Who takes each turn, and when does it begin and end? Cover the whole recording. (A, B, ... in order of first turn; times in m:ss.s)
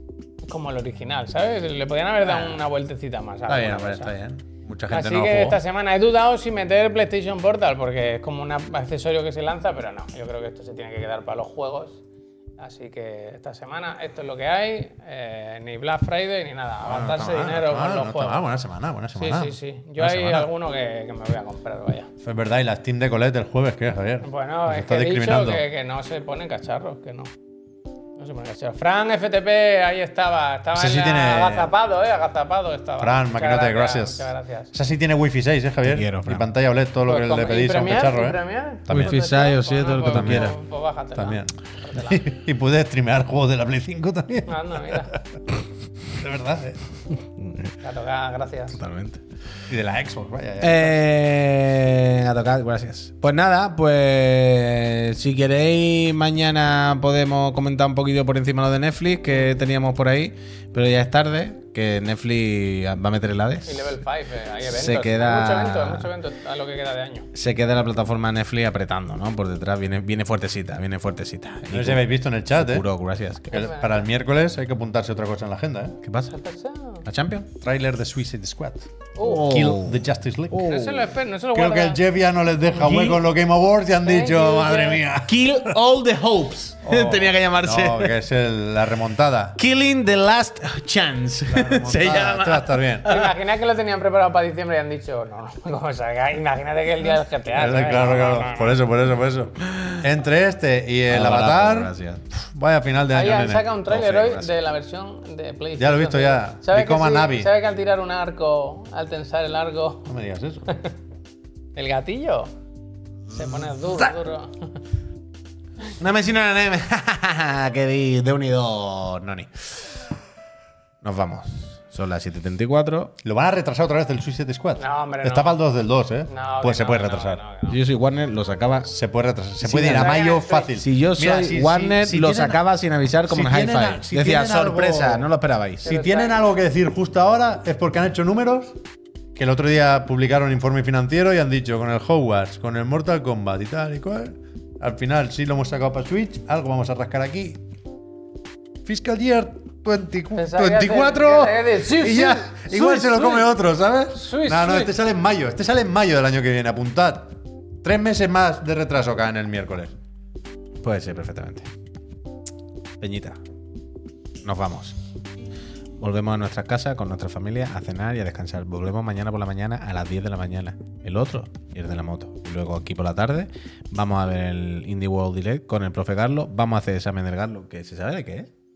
0:00.4-0:04.1 A
0:03.5-0:05.6 B
0:04.9-0:12.0 A
0:12.6-0:18.4 A
0:16.8-0:20.5 B
0:19.1-0:22.1 A
0:22.2-0:25.6 B
0:24.2-0:27.3 A
0:28.2-0:34.7 A
0:30.7-0:31.7 B
0:33.0-0:39.2 B
0:35.8-0:36.4 C
0:37.1-0:42.2 A
0:38.9-0:40.5 C
0:40.1-0:40.5 B
0:41.2-0:45.2 B
0:44.5-0:45.2 A
0:46.1-0:46.8 B
0:47.8-0:48.8 A
0:48.8-0:49.2 C
0:49.7-0:51.0 B
0:50.6-1:04.0 C
1:03.6-1:07.3 A
1:04.6-1:06.1 C
1:07.3-1:13.5 C
1:11.7-1:12.8 B
1:13.5-1:16.0 B
1:13.5-1:14.0 A
1:16.0-1:16.3 C
1:16.3-1:17.0 A
1:17.0-1:17.5 C
1:17.6-1:20.7 B
1:19.2-1:19.5 A
1:19.2-1:21.1 C
1:20.6-1:22.0 A
1:21.5-1:25.8 B
1:22.8-1:23.2 C
1:24.0-1:25.0 A
1:25.2-1:28.1 C
1:26.8-1:29.6 B
1:29.6-1:33.3 C
1:31.5-1:33.1 B
1:33.0-1:38.8 A
1:37.5-1:43.7 B
1:39.6-1:40.0 C
1:41.1-1:42.2 C
1:43.1-1:50.1 A
1:43.8-1:44.5 C
1:45.8-1:47.5 B
1:50.1-1:50.7 B
1:50.7-1:50.9 A
1:51.7-1:52.5 A
1:53.3-1:54.8 A
1:56.0-1:59.7 C
2:01.0-2:03.1 C
2:03.2-2:07.4 B
2:04.8-2:05.6 A
2:06.3-2:07.8 A
2:07.7-2:08.9 C
2:08.9-2:12.6 B
2:09.6-2:10.2 C
2:09.9-2:10.7 A
2:10.8-2:15.9 C
2:13.3-2:15.3 B
2:15.8-2:16.3 A
2:15.8-2:18.8 B
2:19.3-2:27.6 B
2:28.8-2:39.9 B
2:30.4-2:33.5 A
2:34.1-2:34.9 A
2:40.8-2:41.7 C
2:43.0-2:43.4 C
2:44.4-2:45.0 C
2:46.0-2:58.5 C